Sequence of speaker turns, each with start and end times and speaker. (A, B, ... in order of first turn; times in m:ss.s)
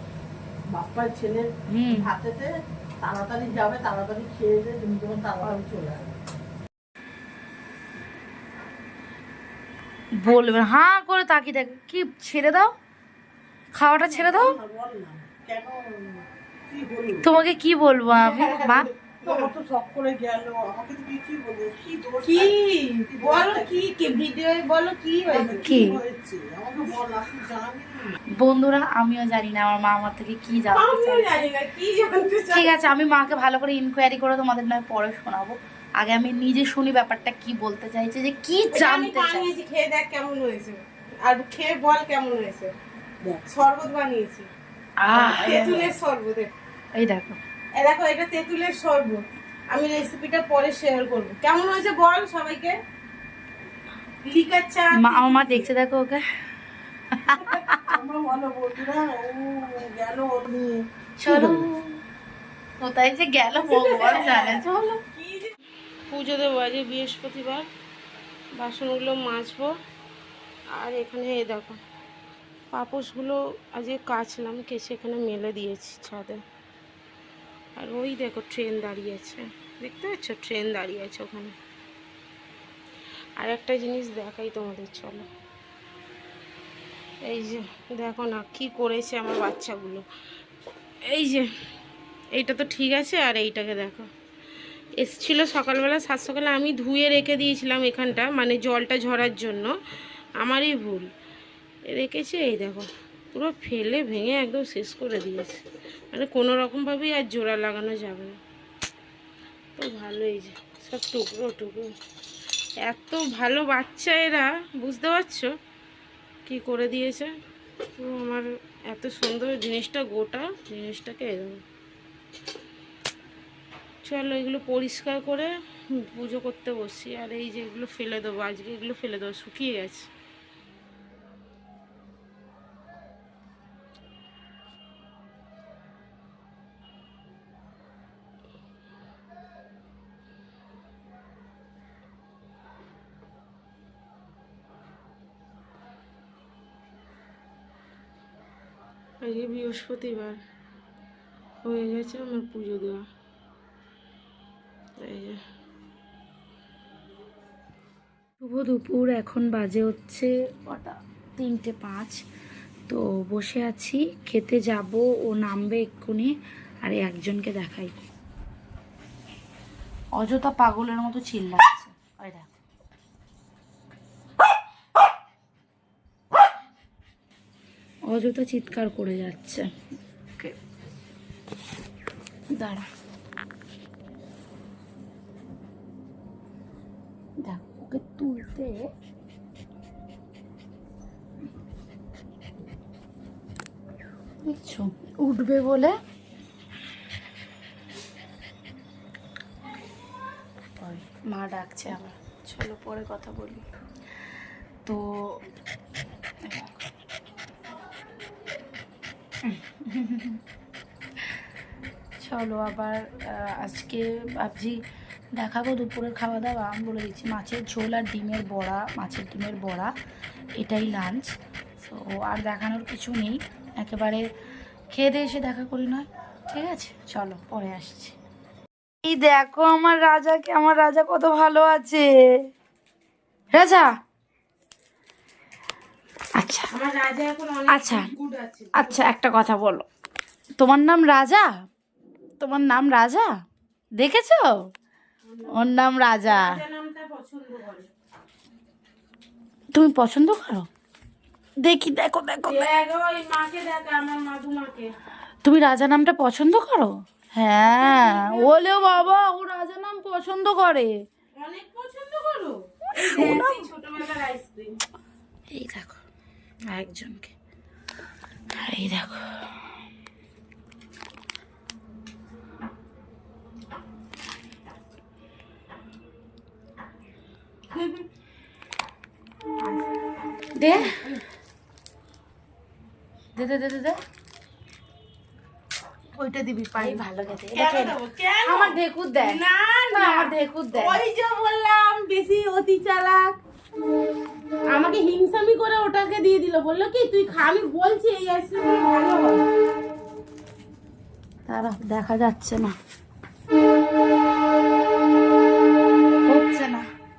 0:00.7-0:06.2 A
0:01.7-0:02.1 B
0:10.2-0:12.7 B
0:13.7-0:14.6 B
0:14.1-0:17.2 A
0:17.2-0:18.9 B
0:18.3-0:18.8 C
0:19.2-0:22.5 A
0:22.2-0:25.7 C
0:23.1-0:24.0 A
0:25.3-0:28.2 A
0:25.6-0:26.0 B
0:28.4-0:31.4 B
0:30.7-0:32.8 C
0:32.5-0:39.5 B
0:38.7-0:42.7 C
0:43.4-0:44.5 C
0:45.0-0:45.8 B
0:45.1-0:46.5 C
0:45.6-0:45.8 A
0:47.0-0:47.4 B
0:47.8-0:52.8 C
0:54.2-0:55.7 C
0:55.0-0:56.2 B
0:57.1-0:58.0 B
0:57.5-1:01.7 A
1:01.2-1:02.0 B
1:02.8-1:04.8 B
1:03.6-1:05.5 C
1:06.1-1:07.7 C
1:08.6-1:09.7 C
1:10.8-1:11.8 C
1:12.7-1:16.4 C
1:17.8-1:21.6 C
1:23.4-1:25.3 C
1:27.2-1:30.1 C
1:31.1-1:31.5 C
1:32.3-1:34.1 C
1:35.0-1:39.7 C
1:40.4-1:41.1 C
1:41.9-1:45.6 C
1:46.1-1:48.4 C
1:49.8-1:51.9 C
1:52.8-1:55.5 C
1:56.5-1:57.3 C
1:58.0-2:01.6 C
2:04.0-2:10.1 C
2:29.2-2:30.4 C
2:31.6-2:33.0 C
2:35.0-2:35.4 C
2:38.4-2:42.2 B
2:42.9-2:48.0 B
2:50.2-2:52.5 B
2:58.1-2:59.7 B
3:02.5-3:02.9 B
3:07.4-3:08.9 B
3:14.4-3:16.0 B
3:20.8-3:23.7 B
3:24.8-3:25.5 B
3:26.4-3:26.7 B
3:29.4-3:30.4 B
3:32.2-3:34.8 B
3:35.4-3:39.9 B
3:40.6-3:44.3 B
3:44.9-3:48.2 B
3:49.0-3:52.4 B
3:53.5-3:53.9 B
3:56.4-3:56.7 B
3:56.7-3:59.0 C
3:57.7-3:58.1 B
3:58.8-3:59.9 B
4:00.6-4:01.5 B
4:02.4-4:03.3 B
4:04.0-4:04.7 B
4:05.3-4:05.7 C
4:05.5-4:06.6 B
4:06.2-4:07.9 C
4:09.7-4:10.7 B
4:11.6-4:12.7 B
4:12.5-4:15.0 C
4:15.4-4:20.9 B
4:17.6-4:19.2 C
4:21.4-4:24.8 C
4:23.0-4:23.6 B
4:25.5-4:26.0 B
4:26.7-4:27.3 B
4:28.5-4:29.4 B
4:37.8-4:38.0 C
4:39.6-4:39.9 C
4:40.6-4:41.0 B
4:40.7-4:41.2 C
4:43.4-4:44.0 B
4:46.2-4:47.0 C
4:46.8-4:49.4 B
4:47.5-4:53.4 C
4:49.9-4:51.0 B
4:54.7-4:59.4 C
5:01.5-5:02.8 B
5:06.3-5:06.8 B